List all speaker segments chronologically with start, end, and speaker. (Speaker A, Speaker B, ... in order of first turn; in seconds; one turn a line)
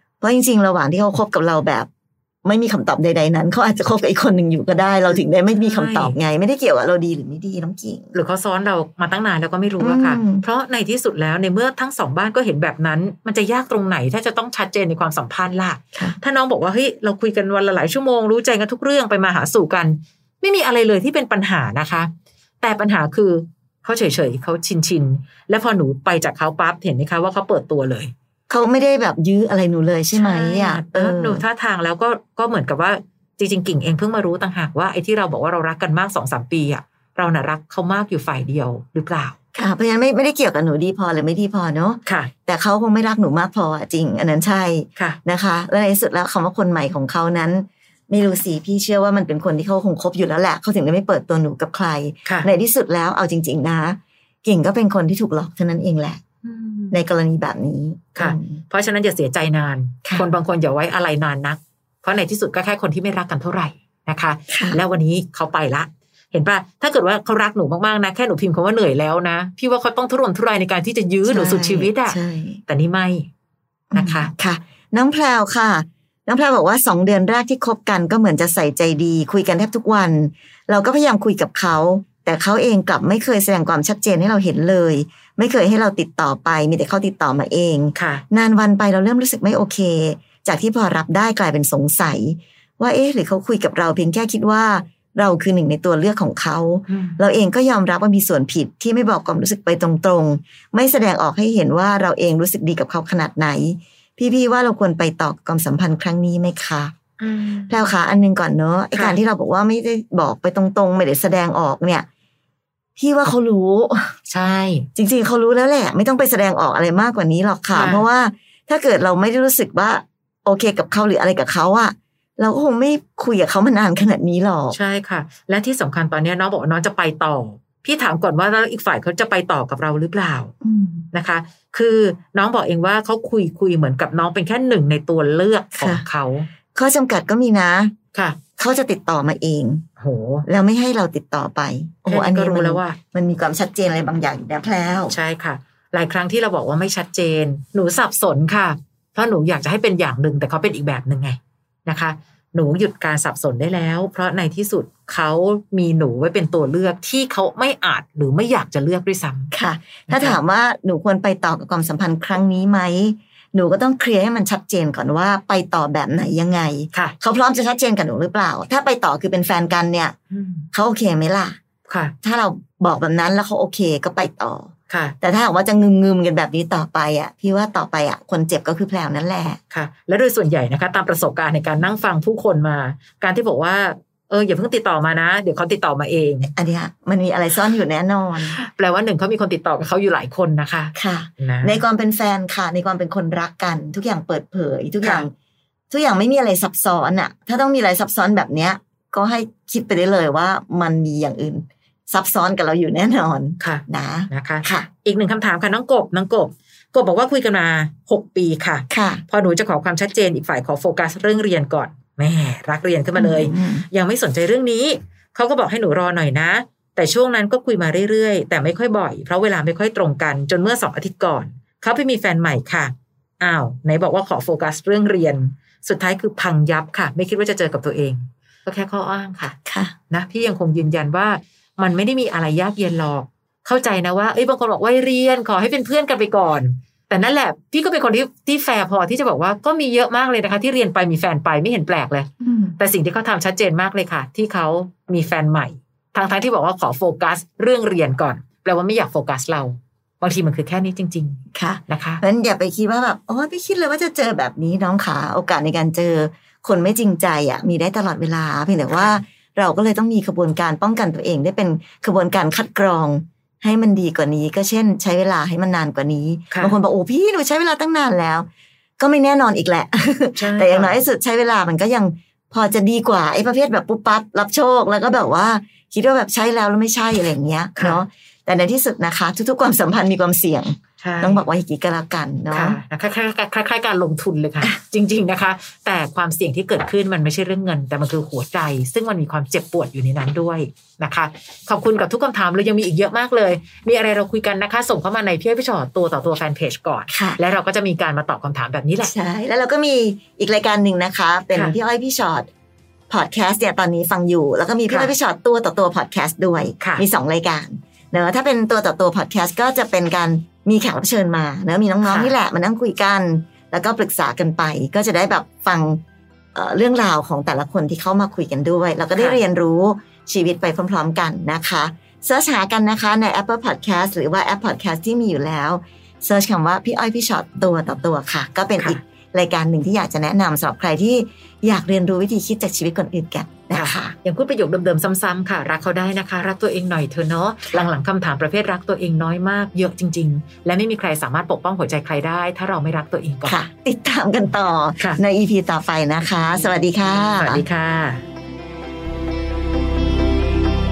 Speaker A: 0.2-1.9
Speaker A: 2.5-8.1
Speaker B: 5.6-6.2
Speaker B: 8.1-28.1
Speaker A: 9.8-10.4
Speaker A: 28.5-31.4
Speaker B: 30.1-39.4
Speaker A: 39.5-56.2
Speaker B: 42.1-42.3
Speaker B: 56.4-57.0
Speaker A: 56.9-58.6
Speaker B: 58.2-72.2
Speaker A: 64.5-64.8
Speaker A: 71.3-72.6
Speaker B: 72.7-73.3
Speaker A: 73.9-106.9
Speaker B: 73.9-74.3
Speaker B: 88.0-88.2
Speaker B: 96.9-97.2
Speaker B: 107.2-107.9
Speaker A: 107.7-112.1
Speaker A: 113.0-114.2
Speaker B: 114.3-114.9
Speaker A: 115.0-124.8
Speaker B: 117.7-118.0
Speaker B: 124.7-130.5
Speaker A: 130.6-131.1
Speaker B: 131.1-136.5
Speaker A: 135.8-136.0
Speaker A: 136.8-137.9
Speaker B: 138.1-138.4
Speaker A: 138.6-139.8
Speaker B: 140.0-140.4
Speaker A: 140.5-145.2
Speaker B: 142.1-143.0
Speaker B: 145.1-159.5
Speaker A: 159.5-170.2
Speaker B: 160.1-160.4
Speaker B: 170.3-170.7
Speaker A: 170.7-171.6
Speaker B: 171.9-172.2
Speaker A: 172.2-179.6
Speaker B: 174.9-175.2
Speaker B: 179.7-186.5
Speaker A: 186.6-188.6
Speaker B: 188.5-191.8
Speaker A: 190.9-195.3
Speaker A: 195.9-204.9
Speaker B: 203.6-229.6
Speaker A: 208.9-209.2
Speaker A: 213.2-213.8
Speaker A: 229.7-229.9
Speaker B: 230.1-252.2
Speaker A: 242.4-242.8
Speaker A: 251.5-268.5
Speaker A: 269.0-282.8
Speaker B: 270.4-271.0
Speaker B: 281.0-281.4
Speaker B: 282.5-299.1
Speaker A: 297.1-297.4
Speaker A: 299.0-302.5
Speaker A: 303.1-316.0
Speaker B: 312.0-312.3
Speaker A: 316.6-334.1
Speaker B: 319.2-319.4
Speaker B: 333.7-343.6
Speaker A: 343.4-347.6
Speaker B: 347.2-348.2